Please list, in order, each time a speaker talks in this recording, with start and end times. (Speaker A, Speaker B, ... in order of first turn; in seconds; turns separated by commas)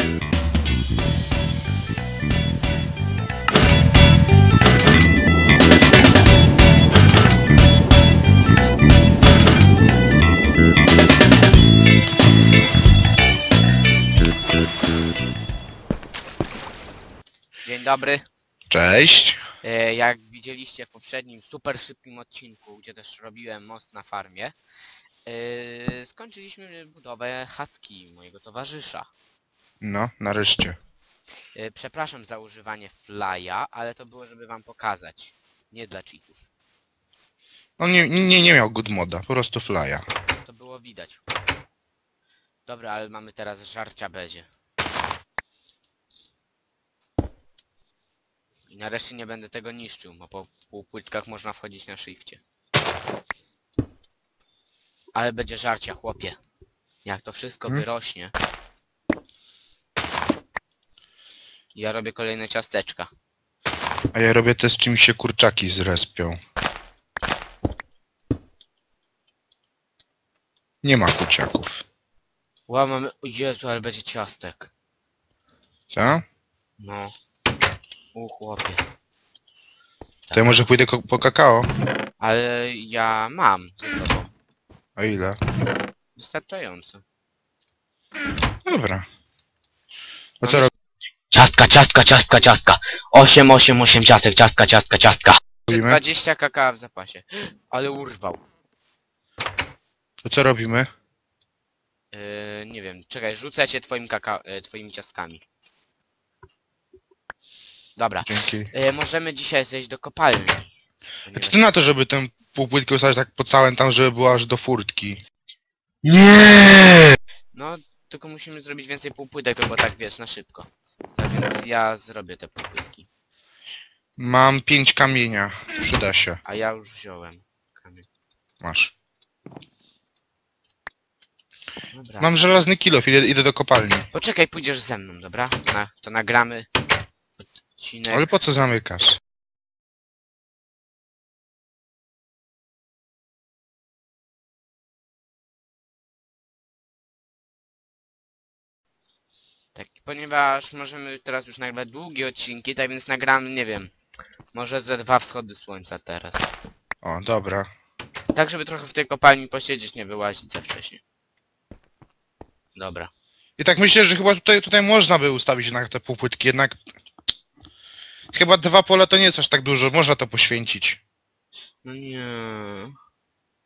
Speaker A: 17.6-18.2, Speaker B: 18.7-19.4, Speaker A: 19.6-24.5, Speaker A: 25.2-29.1, Speaker B: 29.8-30.8, Speaker A: 31.5-36.5, Speaker B: 37.8-40.0, Speaker A: 40.3-41.2, Speaker A: 42.6-44.5, Speaker A: 48.7-52.4, Speaker A: 55.1-56.4, Speaker A: 57.0-58.3, Speaker A: 61.7-63.1, Speaker B: 64.1-66.4, Speaker B: 70.8-71.8, Speaker A: 72.7-74.7, Speaker B: 75.9-76.2, Speaker A: 76.8-77.1, Speaker A: 78.1-78.8, Speaker A: 80.3-80.6, Speaker B: 80.3-81.7, Speaker A: 82.2-84.3, Speaker B: 85.0-85.4, Speaker A: 86.2-87.0, Speaker B: 88.6-89.0, Speaker B: 90.4-90.7, Speaker A: 90.4-90.7, Speaker A: 91.3-98.4, Speaker B: 95.7-96.0, Speaker B: 100.2-100.9, Speaker A: 102.1-105.4, Speaker A: 108.0-110.7, Speaker B: 108.2-108.7, Speaker A: 111.2-111.6, Speaker B: 111.3-115.2, Speaker B: 116.0-117.1, Speaker A: 117.5-123.1, Speaker B: 124.2-126.4, Speaker A: 126.4-128.1, Speaker B: 128.6-128.9, Speaker A: 131.9-132.3, Speaker B: 132.2-134.1, Speaker A: 134.1-136.7, Speaker A: 137.4-138.3, Speaker B: 138.1-139.2, Speaker A: 149.7-153.9, Speaker A: 154.5-156.5, Speaker B: 157.0-157.7, Speaker A: 158.3-161.0, Speaker A: 162.7-163.1, Speaker B: 163.6-166.8, Speaker B: 168.3-171.0, Speaker A: 171.8-172.9